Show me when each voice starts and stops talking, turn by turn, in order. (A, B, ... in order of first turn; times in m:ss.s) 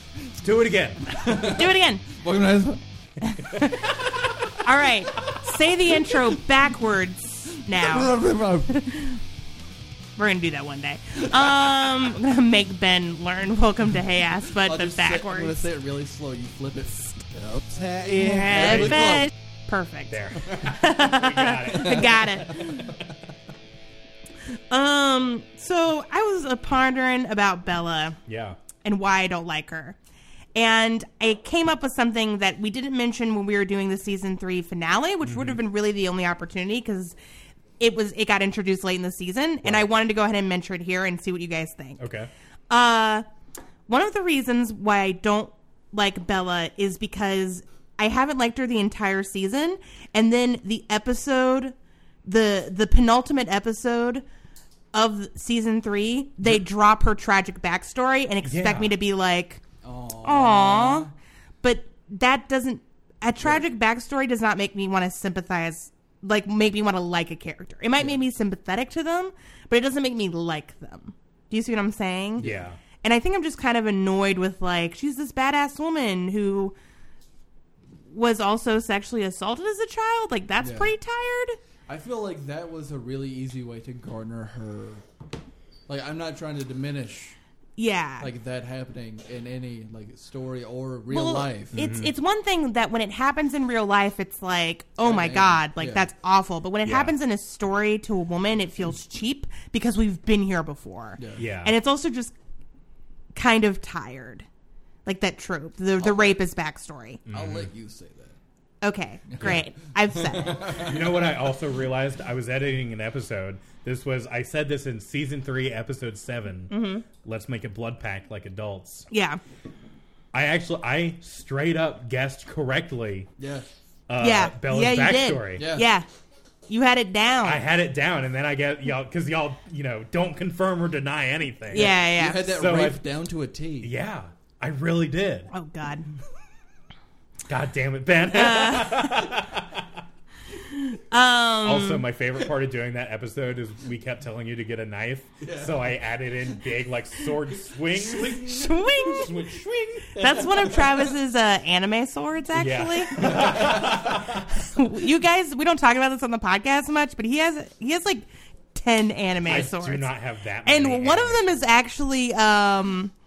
0:00.4-0:01.2 A
0:01.1-0:02.8 B
0:01.2-0:02.0 C
0:03.2-0:08.2 C
0:03.8-0:04.6 B
0:05.2-0:06.2 B
0:07.5-0:08.8 B
0:08.7-0:09.2 C
0:10.2-0:15.6 C
0:11.3-0:12.0 B
0:14.6-0:19.3 B
0:18.0-0:19.1 A
0:18.1-0:23.0 C
0:20.1-0:22.2 A
0:21.6-0:23.1 B
0:24.7-0:28.2 C
0:28.2-0:28.6 A
0:28.8-0:30.0 C
0:30.6-0:37.2 C
0:35.2-0:35.6 A
0:37.8-0:42.0 C
0:42.0-0:42.3 A
0:42.7-0:43.2 C
0:43.9-0:54.2 C
0:54.9-0:59.6 C
0:58.4-0:59.0 A
0:59.8-1:01.1 B
1:00.2-1:01.1 C
1:01.6-1:12.4 C
1:12.4-1:12.8 A
1:12.4-1:12.7 B
1:13.0-1:16.8 C
1:18.1-1:21.6 C
1:20.6-1:20.9 B
1:21.9-1:25.0 B
1:25.9-1:27.4 B
1:27.8-1:28.3 C
1:28.2-1:31.8 B
1:31.1-1:42.4 C
1:31.7-1:32.1 A
1:35.0-1:36.1 B
1:36.8-1:37.2 A
1:41.2-1:41.4 B
1:41.4-1:41.8 A
1:43.3-1:44.5 C
1:45.1-1:47.2 C
1:46.0-1:46.4 B
1:47.2-1:47.7 A
1:47.3-1:48.4 B
1:48.8-1:50.8 C
1:49.3-1:51.2 B
1:50.8-1:59.1 A
1:56.7-1:57.1 C
1:59.1-1:59.4 C
2:00.3-2:03.3 A
2:03.4-2:03.7 B
2:04.1-2:05.7 A
2:04.2-2:06.1 C
2:05.6-2:05.9 B
2:06.7-2:07.6 C
2:07.4-2:13.0 A
2:11.7-2:12.4 C
2:11.7-2:13.9 B
2:13.8-2:15.5 A
2:15.5-2:16.1 C
2:17.5-2:20.0 A
2:18.3-2:19.4 C
2:20.6-2:22.0 C
2:21.6-2:28.5 A
2:25.4-2:25.9 B
2:27.5-2:29.5 B
2:28.4-2:29.3 C
2:29.1-2:30.7 A
2:30.2-2:43.1 C
2:30.2-2:31.1 B
2:32.5-2:34.5 A
2:33.2-2:34.2 B
2:39.5-2:41.6 A